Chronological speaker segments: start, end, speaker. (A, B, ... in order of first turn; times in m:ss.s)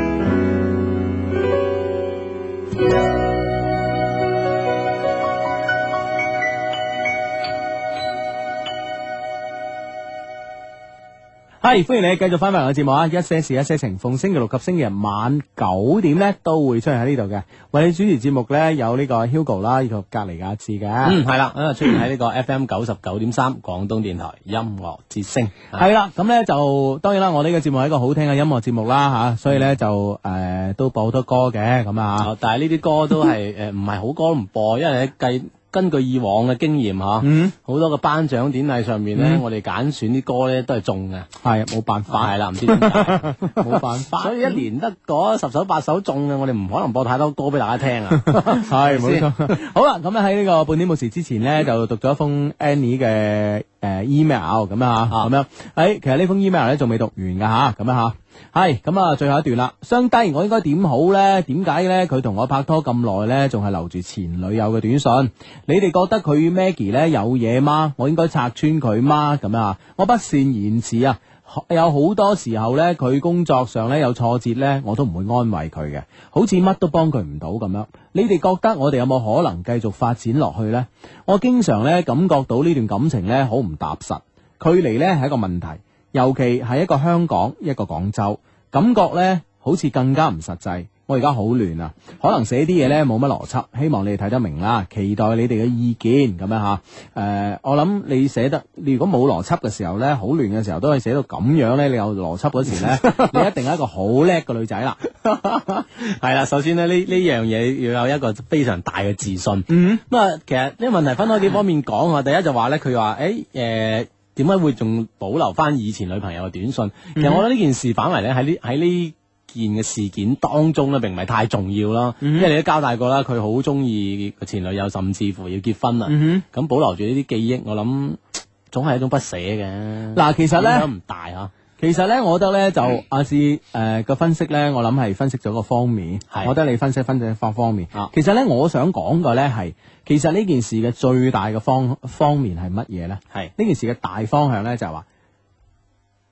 0:11.6-0:21.2 A
0:21.0-0:25.8 B
0:25.8-0:32.3 A
0:32.2-0:41.3 B
0:37.2-0:37.5 A
0:39.2-0:39.4 A
0:41.4-0:44.6 A
0:42.1-0:49.6 B
0:48.2-1:45.0 A
1:45.2-2:08.2 B
1:49.7-1:50.0 A
1:57.2-1:57.4 A
2:02.2-2:02.5 A
2:06.1-2:06.4 A
2:08.7-2:11.5 B
2:10.1-2:10.9 A
2:11.8-2:25.1 A